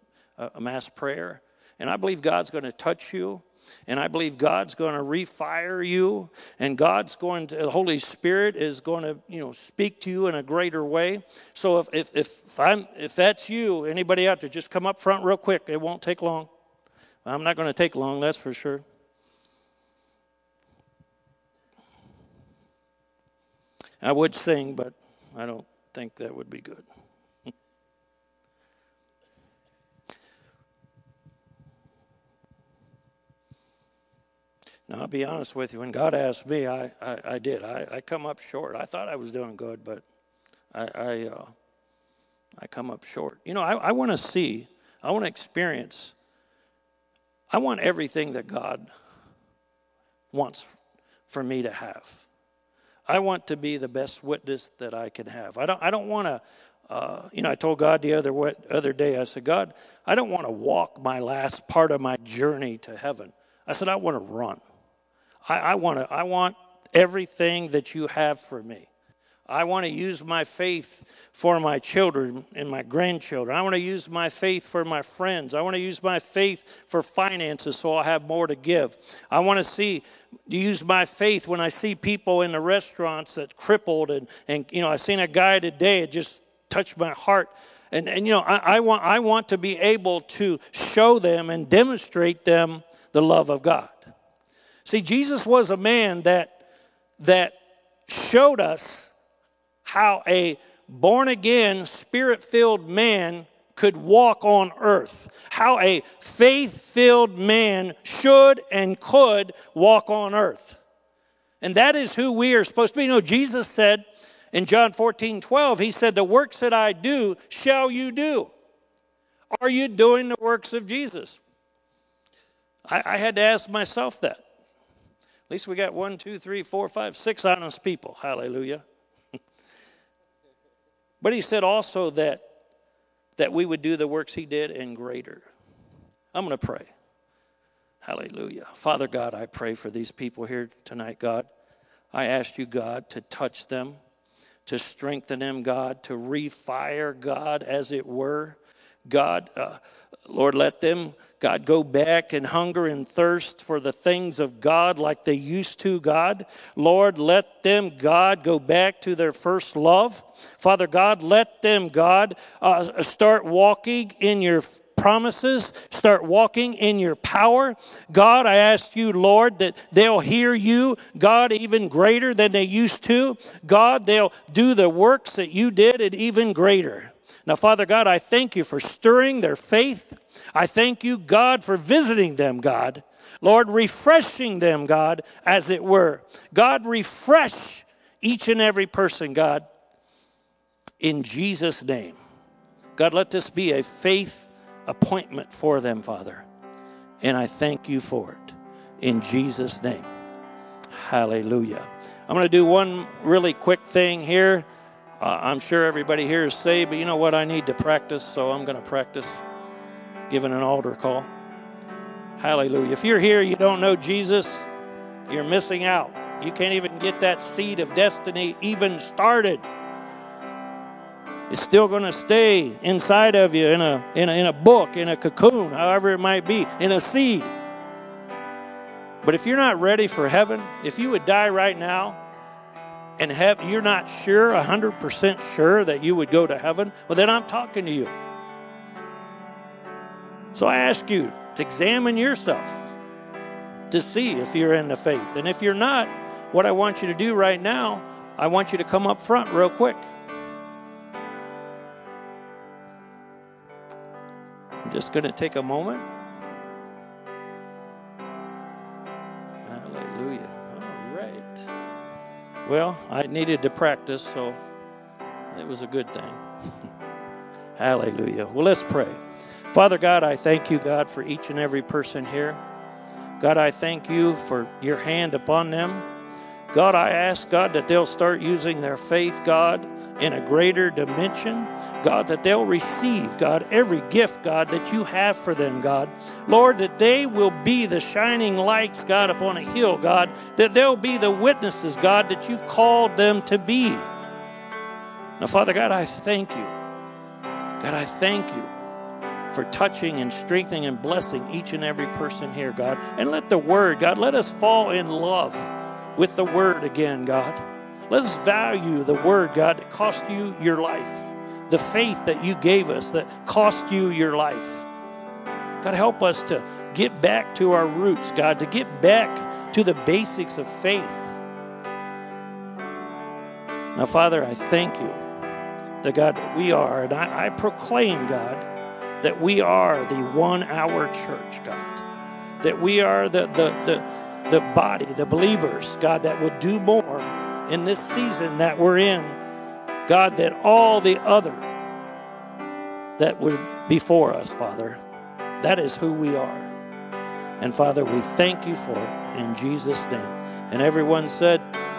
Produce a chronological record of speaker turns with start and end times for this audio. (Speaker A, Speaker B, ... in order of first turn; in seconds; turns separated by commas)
Speaker A: 0.4-16.5, Speaker A: 17.2-18.8, Speaker A: 24.0-26.8, Speaker A: 34.9-40.0, Speaker A: 40.7-41.5, Speaker A: 42.6-46.1, Speaker A: 47.5-48.9, Speaker A: 50.3-52.2, Speaker A: 53.1-64.6, Speaker A: 65.5-68.9, Speaker A: 69.5-94.1, Speaker A: 94.8-96.6, Speaker A: 97.2-99.1, Speaker A: 99.8-110.8, Speaker A: 111.6-118.5, Speaker A: 119.6-121.4, Speaker A: 122.9-124.4, Speaker A: 125.5-128.8, Speaker A: 131.2-132.4, Speaker A: 133.4-135.4, Speaker A: 136.3-136.9, Speaker A: 138.0-141.5, Speaker A: 142.1-144.0, Speaker A: 144.7-189.6, Speaker A: 191.0-192.2, Speaker A: 192.9-196.5, Speaker A: 197.2-200.1, Speaker A: 200.9-204.7, Speaker A: 205.2-209.4, Speaker A: 210.3-211.3, Speaker A: 212.4-214.7, Speaker A: 215.3-219.6, Speaker A: 221.5-227.5, Speaker A: 229.2-232.2, Speaker A: 233.2-238.1, Speaker A: 240.5-242.9, Speaker A: 243.9-250.0, Speaker A: 254.8-256.0, Speaker A: 259.6-261.7, Speaker A: 262.6-264.6, Speaker A: 265.5-266.4, Speaker A: 267.8-272.6, Speaker A: 273.4-276.1, Speaker A: 276.7-294.0, Speaker A: 295.4-296.7, Speaker A: 297.8-298.7, Speaker A: 299.5-314.9, Speaker A: 315.8-321.4, Speaker A: 323.9-325.2, Speaker A: 326.0-328.7, Speaker A: 329.2-332.0, Speaker A: 332.6-339.4, Speaker A: 340.1-341.7, Speaker A: 343.2-345.0, Speaker A: 345.6-346.7, Speaker A: 347.6-351.7